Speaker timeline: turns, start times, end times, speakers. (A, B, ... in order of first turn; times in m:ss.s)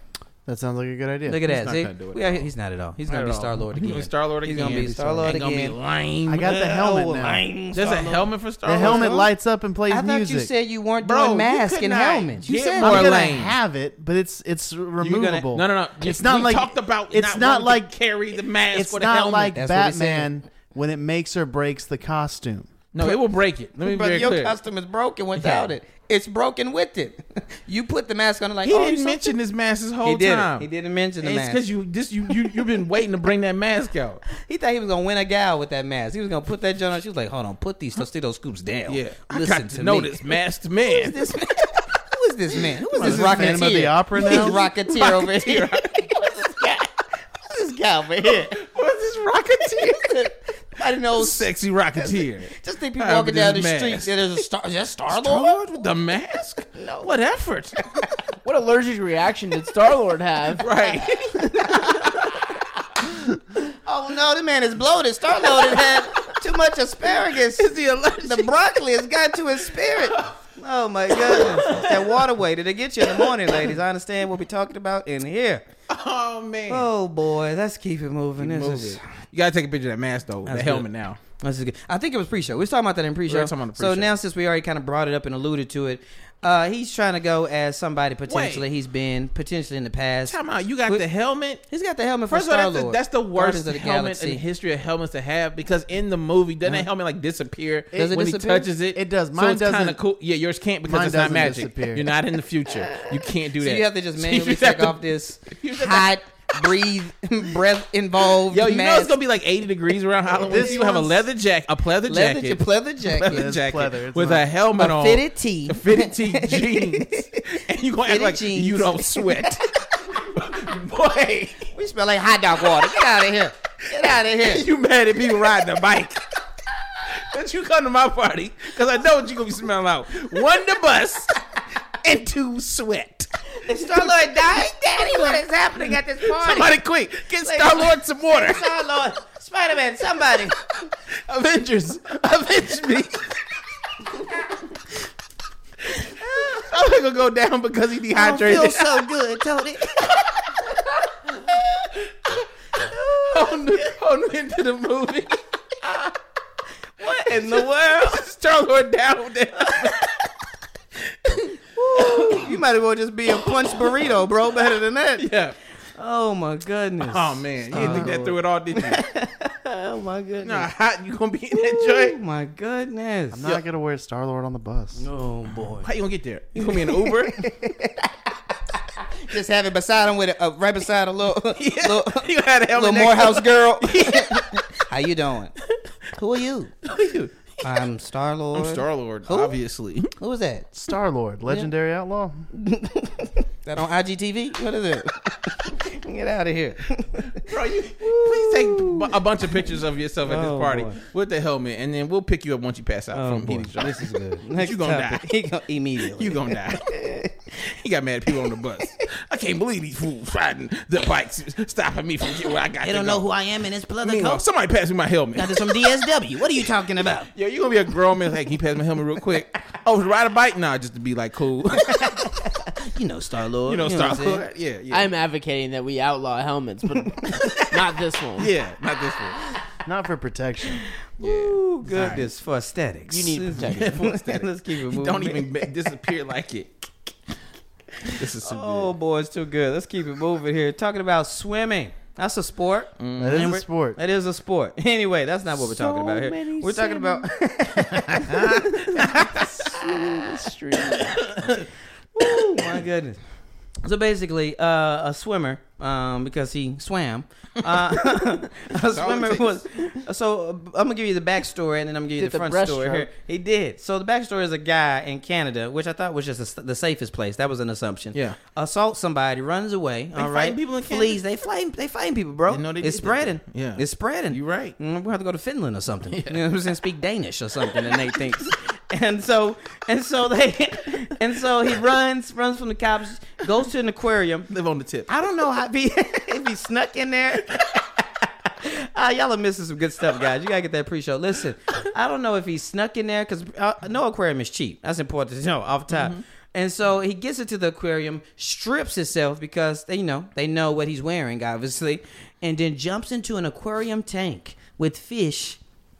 0:00.4-0:01.4 A
0:01.3-0:05.8 B
0:01.4-0:02.5 C
0:03.1-0:06.5 C
0:06.2-0:07.4 A
0:06.4-0:09.3 B
0:07.7-0:09.2 C
0:08.6-0:10.5 A
0:09.9-0:13.1 B
0:11.0-0:13.5 C
0:12.8-0:17.9 A
0:15.0-0:15.4 B
0:15.5-0:19.6 C
0:18.7-0:22.7 A
0:19.6-0:20.3 B
0:22.9-0:24.5 C
0:23.8-0:29.3 B
0:25.4-0:25.7 C
0:28.6-0:30.6 C
0:30.0-0:31.6 B
0:31.2-0:34.2 C
0:34.4-0:40.3 B
0:38.9-0:41.2 C
0:40.9-0:48.6 B
0:42.9-0:46.1 C
0:43.0-0:44.6 A
0:48.3-0:50.3 C
0:49.8-0:55.6 B
0:51.1-0:54.2 C
0:55.1-0:57.8 C
0:56.7-0:57.1 B
0:58.4-1:00.6 D
1:00.6-1:02.5 C
1:00.8-1:02.2 B
1:03.6-1:07.7 B
1:05.4-1:06.3 C
1:07.3-1:08.5 C
1:08.2-1:15.6 B
1:11.1-1:12.2 C
1:13.1-1:13.7 C
1:15.9-1:16.8 C
1:16.7-1:19.0 B
1:18.4-1:21.2 C
1:20.4-1:20.9 B
1:21.4-1:31.0 B
1:23.3-1:24.1 C
1:28.3-1:28.6 C
1:30.3-1:31.6 C
1:31.7-1:34.4 B
1:32.3-1:46.1 C
1:37.9-1:38.7 B
1:38.9-1:40.0 A
1:40.8-1:42.1 A
1:42.9-1:49.1 B
1:48.5-2:01.7 C
1:50.4-1:51.1 A
1:50.4-1:51.1 B
1:52.1-1:53.5 B
1:53.2-1:54.4 A
1:54.8-1:57.4 B
1:58.0-2:00.0 B
2:01.7-2:04.6 B
2:04.4-2:06.2 C
2:07.1-2:11.4 C
2:11.9-2:13.3 C
2:13.6-2:16.8 B
2:13.8-2:14.1 C
2:16.2-2:18.8 C
2:17.4-2:20.6 B
2:21.3-2:23.4 C
2:26.2-2:26.6 B
2:26.5-2:29.1 C
2:28.1-2:30.0 B
2:30.0-2:30.3 C
2:32.8-2:33.9 B
2:33.3-2:36.1 C
2:37.0-2:38.2 B
2:37.2-2:40.0 C
2:39.6-2:40.1 B
2:41.4-2:45.2 B
2:42.0-2:42.5 C
2:45.2-2:45.6 C
2:46.0-2:50.7 B
2:47.1-2:49.0 C
2:47.7-2:48.1 A
2:50.4-2:52.2 C
2:51.5-2:53.4 B
2:53.3-2:55.0 A
2:55.0-2:55.9 B
2:55.8-2:57.4 C
2:56.6-3:05.5 B
3:01.5-3:04.8 C
3:06.1-3:06.7 B
3:06.8-3:07.3 C
3:07.6-3:09.6 B
3:08.5-3:10.1 C
3:10.2-3:10.7 B
3:10.7-3:12.5 A
3:12.5-3:17.5 B
3:17.4-3:25.2 C
3:18.0-3:21.0 B
3:23.1-3:27.3 B
3:26.0-3:27.0 C
3:27.6-3:33.2 C
3:32.8-3:34.4 B
3:34.0-3:36.1 C
3:35.4-3:37.3 B
3:37.3-3:42.3 C
3:41.8-3:44.4 B
3:43.6-3:45.1 C
3:44.9-3:48.5 D
3:47.0-3:47.7 B
3:48.4-3:49.4 C
3:49.8-3:50.8 A
3:51.2-3:55.7 B
3:51.2-3:52.3 C
3:53.1-3:54.0 D
3:53.7-3:56.7 C
3:58.0-3:58.9 C
3:58.1-4:10.1 B
4:03.0-4:03.5 C
4:03.2-4:04.0 A
4:05.6-4:07.4 D
4:08.3-4:09.5 C
4:08.8-4:11.3 D
4:11.2-4:11.6 C
4:12.1-4:13.2 B
4:13.8-4:44.5 B
4:18.7-4:19.8 C
4:22.2-4:23.1 D
4:30.2-4:31.2 C
4:32.5-4:34.8 C
4:36.1-4:36.4 C
4:44.5-4:45.1 C
4:45.1-4:47.9 B
4:48.4-5:05.6 B
4:55.9-4:56.2 C